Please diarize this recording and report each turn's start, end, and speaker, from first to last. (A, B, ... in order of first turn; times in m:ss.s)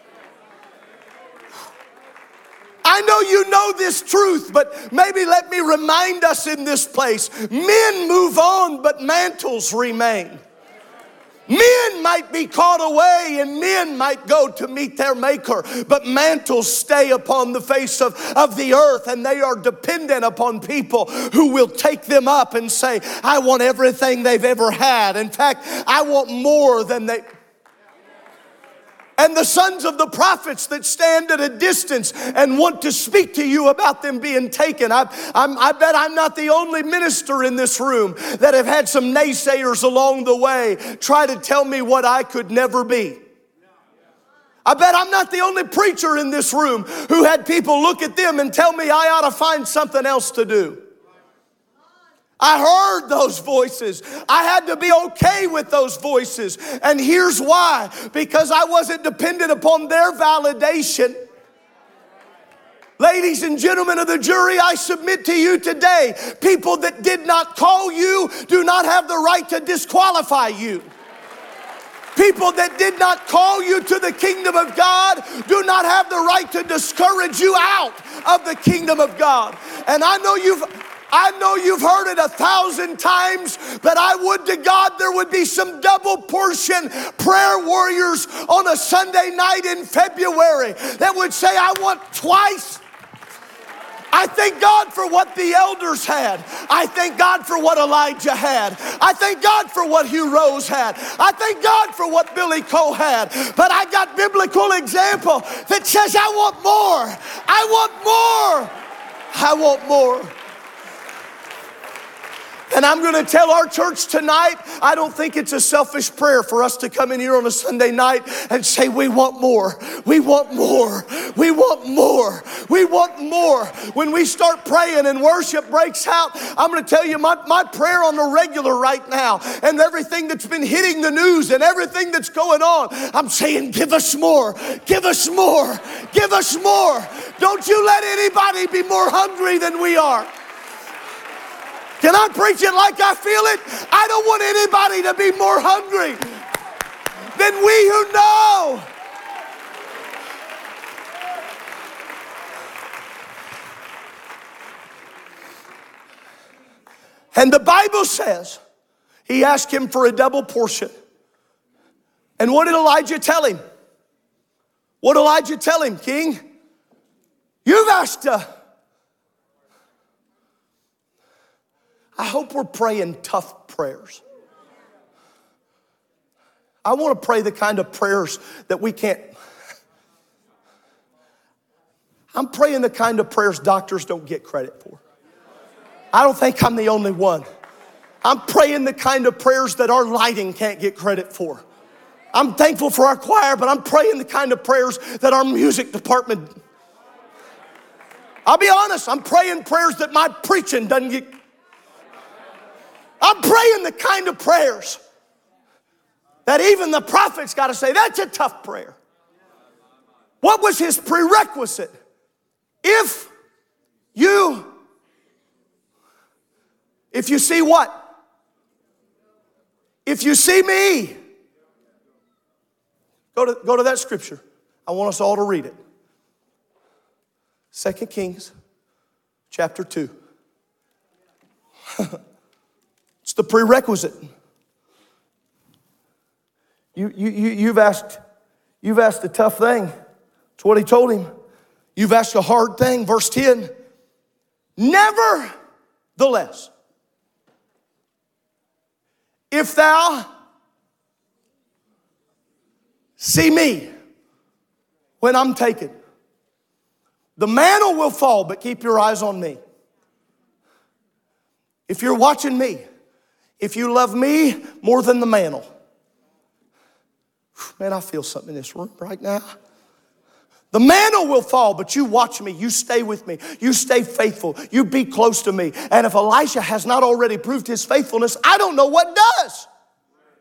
0:02.8-0:10.4 A
0:11.5-0:27.2 A
0:29.2-0:43.2 A
0:44.6-0:50.8 A
0:52.4-1:01.2 A
1:03.0-1:10.9 A
1:12.2-1:32.8 A
1:34.1-1:48.7 A
1:49.3-1:50.3 A
1:52.7-2:20.3 A
2:22.0-2:26.3 A
2:27.3-2:28.9 A
2:37.3-2:38.6 A
2:39.3-2:40.9 A
2:42.4-2:43.6 A
2:45.0-2:46.4 A
2:47.6-2:48.4 A
2:52.2-2:54.2 A
2:56.8-2:59.3 A
3:02.3-3:05.0 A
3:06.1-3:07.4 A
3:08.2-3:11.6 A
3:12.3-3:16.5 A
3:18.4-3:21.3 A
3:23.2-3:25.0 A
3:26.4-3:29.0 A
3:30.4-3:31.9 A
3:32.8-3:33.3 A
3:34.1-3:34.6 A
3:37.1-3:38.0 A
3:40.0-3:41.1 A
3:43.3-3:45.7 A
3:47.7-3:48.5 A
3:49.5-3:50.1 A
3:53.2-3:54.3 A
3:56.9-3:58.2 A
3:58.8-3:59.9 A
4:00.6-4:01.3 A
4:02.0-4:03.7 A
4:04.8-4:05.5 A
4:06.2-4:06.7 A
4:09.5-4:10.2 A
4:13.2-4:13.9 A
4:15.2-4:15.9 A
4:17.4-4:19.6 A
4:21.9-4:22.8 A
4:23.6-4:25.7 A
4:27.6-4:29.5 A
4:30.7-4:39.7 A